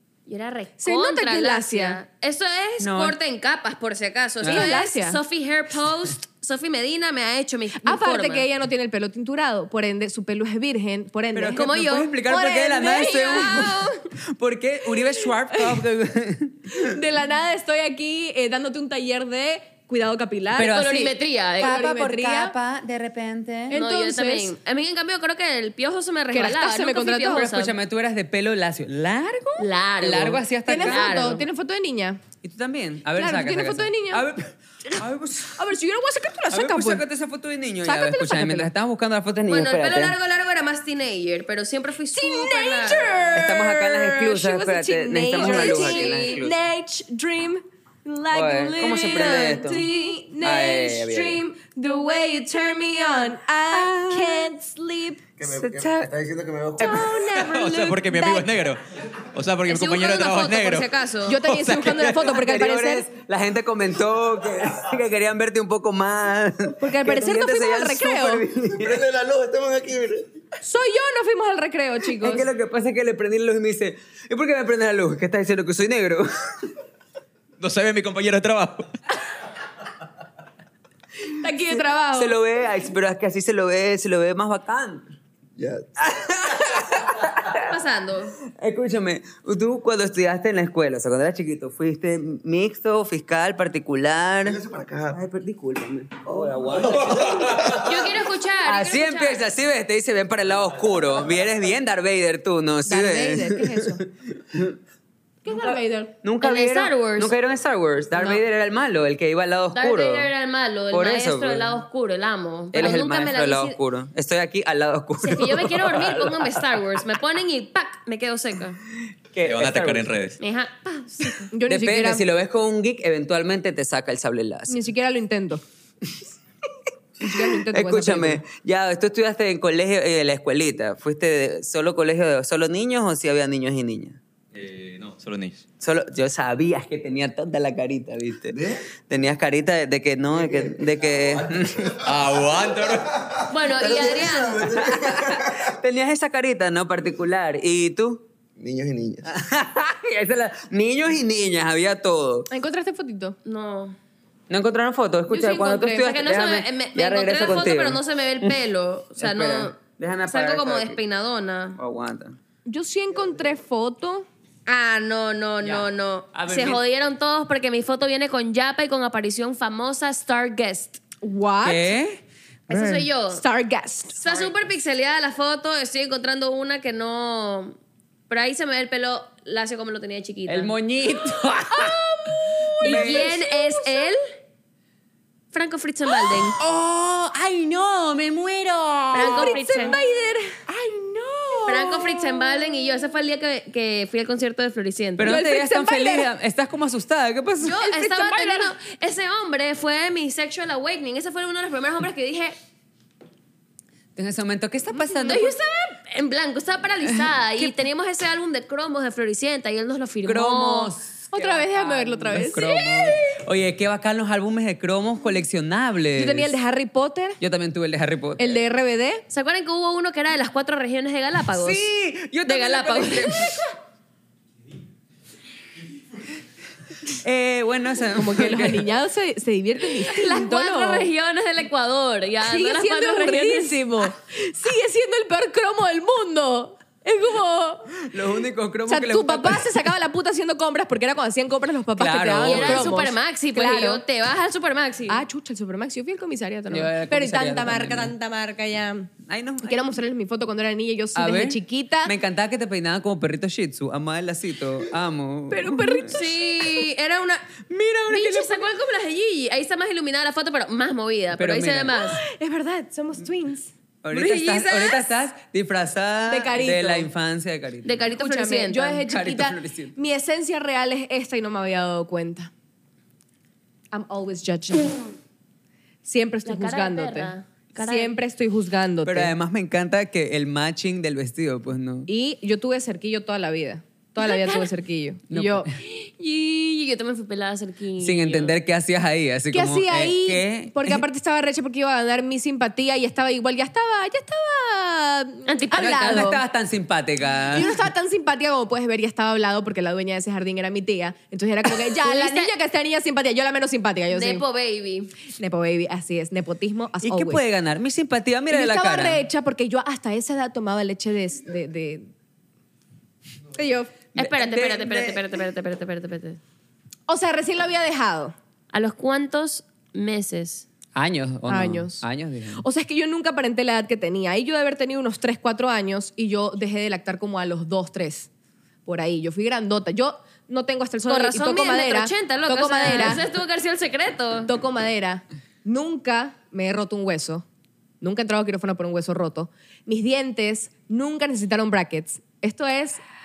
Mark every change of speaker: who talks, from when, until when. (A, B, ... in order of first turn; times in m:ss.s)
0:00.3-0:08.5 A
0:00.8-0:02.0 B
0:02.8-0:03.2 C
0:04.4-0:04.7 C
0:04.5-0:05.2 B
0:07.8-0:11.7 B
0:11.3-0:17.0 C
0:11.5-0:14.0 A
0:12.3-0:13.7 B
0:15.5-0:15.8 B
0:16.7-0:20.9 B
0:20.5-0:23.8 C
0:20.6-0:21.8 A
0:21.6-0:22.5 B
0:23.7-0:24.5 B
0:23.7-0:27.7 A
0:26.3-0:27.5 B
0:27.3-0:31.4 C
0:29.6-0:31.4 A
0:30.7-0:32.2 B
0:32.4-0:35.6 C
0:33.2-0:34.2 B
0:35.5-0:37.0 B
0:36.5-0:40.2 C
0:37.8-0:38.7 B
0:39.5-0:43.2 A
0:42.1-0:55.2 B
0:43.3-0:46.6 C
0:45.3-0:46.4 A
0:48.3-0:49.9 C
0:50.4-0:51.4 C
0:53.7-0:54.5 C
0:55.4-0:57.1 D
0:55.4-0:56.1 C
0:56.8-0:58.4 B
0:56.9-0:58.3 A
0:57.3-0:58.8 E
0:59.3-1:02.0 E
0:59.6-1:01.4 A
1:01.3-1:03.1 B
1:01.8-1:09.0 C
1:06.8-1:08.4 B
1:08.7-1:10.3 D
1:10.6-1:12.5 B
1:12.1-1:16.7 C
1:17.6-1:18.9 E
1:21.3-1:22.4 B
1:22.1-1:25.1 C
1:25.6-1:25.8 D
1:26.0-1:27.7 C
1:27.5-1:28.4 A
1:28.5-1:34.6 C
1:34.4-1:35.2 D
1:35.1-1:38.1 C
1:36.2-1:37.9 D
1:37.7-1:39.4 A
1:38.6-1:44.8 C
1:42.8-1:44.0 B
1:45.4-1:46.2 B
1:45.5-1:50.3 C
1:46.4-1:47.3 A
1:49.7-1:53.8 A
1:50.9-1:51.8 C
1:52.7-1:56.6 C
1:55.2-1:58.8 A
1:59.3-2:00.2 C
1:59.4-2:00.3 E
2:00.4-2:01.5 A
2:01.5-2:02.2 B
2:01.6-2:04.8 C
2:04.7-2:05.6 B
2:07.2-2:08.4 B
2:07.3-2:14.2 C
2:14.5-2:15.7 E
2:15.8-2:21.9 C
2:18.5-2:18.8 D
2:20.3-2:21.9 D
2:22.0-2:23.1 E
2:22.8-2:25.7 D
2:23.5-2:24.6 A
2:24.6-2:28.2 C
2:28.6-2:29.2 D
2:29.2-2:32.5 C
2:32.5-2:33.4 B
2:33.4-2:34.0 A
2:34.5-2:38.6 C
2:35.3-2:36.1 B
2:36.0-2:41.8 A
2:39.2-2:41.0 C
2:41.8-2:42.4 C
2:42.6-2:44.3 B
2:44.6-2:51.0 A
2:45.6-2:46.8 C
2:51.2-2:51.9 B
2:51.6-2:53.1 C
2:52.7-2:53.4 A
2:53.3-2:54.2 B
2:54.2-2:57.8 A
2:58.3-3:00.7 A
3:00.5-3:02.0 C
3:01.7-3:04.1 B
3:02.8-3:03.3 C
3:02.8-3:04.2 A
3:05.5-3:06.6 A
3:06.5-3:09.8 C
3:09.1-3:12.9 B
3:09.1-3:10.0 A
3:11.7-3:15.4 A
3:15.2-3:17.8 C
3:15.2-3:16.3 B
3:17.6-3:22.6 A
3:17.7-3:18.7 B
3:24.2-3:25.6 C
3:25.2-3:30.9 A
3:30.2-3:36.5 C
3:31.3-3:33.1 B
3:36.2-3:37.4 B
3:37.4-3:38.6 C
3:38.4-3:39.2 B
3:39.3-3:41.9 A
3:41.5-3:43.6 C
3:42.4-3:43.6 A
3:47.2-3:48.9 C
3:48.1-3:51.1 B
3:50.0-3:54.0 A
3:52.4-3:58.0 B
3:58.0-3:59.9 C
3:58.9-4:04.0 B
4:02.0-4:03.0 C
4:02.4-4:05.2 A
4:05.1-4:09.1 B
4:06.7-4:08.1 C
4:09.2-4:09.9 C
4:09.6-4:12.1 B
4:11.1-4:16.2 C
4:15.5-4:16.6 B
4:16.1-4:17.4 A
4:17.7-4:18.6 C
4:18.1-4:22.2 A
4:21.4-4:22.0 C
4:21.9-4:23.7 B
4:24.0-4:28.1 C
4:24.1-4:25.1 A
4:26.3-4:27.1 B
4:27.8-4:29.0 A
4:28.1-4:32.5 B
4:29.0-4:29.9 C
4:33.9-4:35.0 B
4:36.0-4:39.3 B
4:36.4-4:38.1 A
4:39.0-4:42.1 C
4:42.1-4:45.7 B
4:44.2-4:44.7 A
4:45.3-4:45.8 C
4:45.8-4:48.5 A
4:48.0-4:51.0 C
4:49.5-4:56.4 B
4:55.5-4:56.2 A
4:55.7-4:57.8 C
4:57.5-5:04.4 B
5:02.0-5:02.5 A
5:04.1-5:05.1 A
5:05.4-5:07.4 B
5:07.0-5:09.2 C
5:08.5-5:12.1 B
5:13.5-5:13.9 B
5:14.2-5:15.2 C
5:14.2-5:16.4 A
5:17.1-5:18.3 B
5:18.7-5:20.7 A
5:20.9-5:22.6 C
5:21.5-5:22.0 B
5:22.6-5:28.3 B
5:28.8-5:33.2 B
5:31.1-5:34.5 A
5:34.4-5:37.4 B
5:38.0-5:43.0 B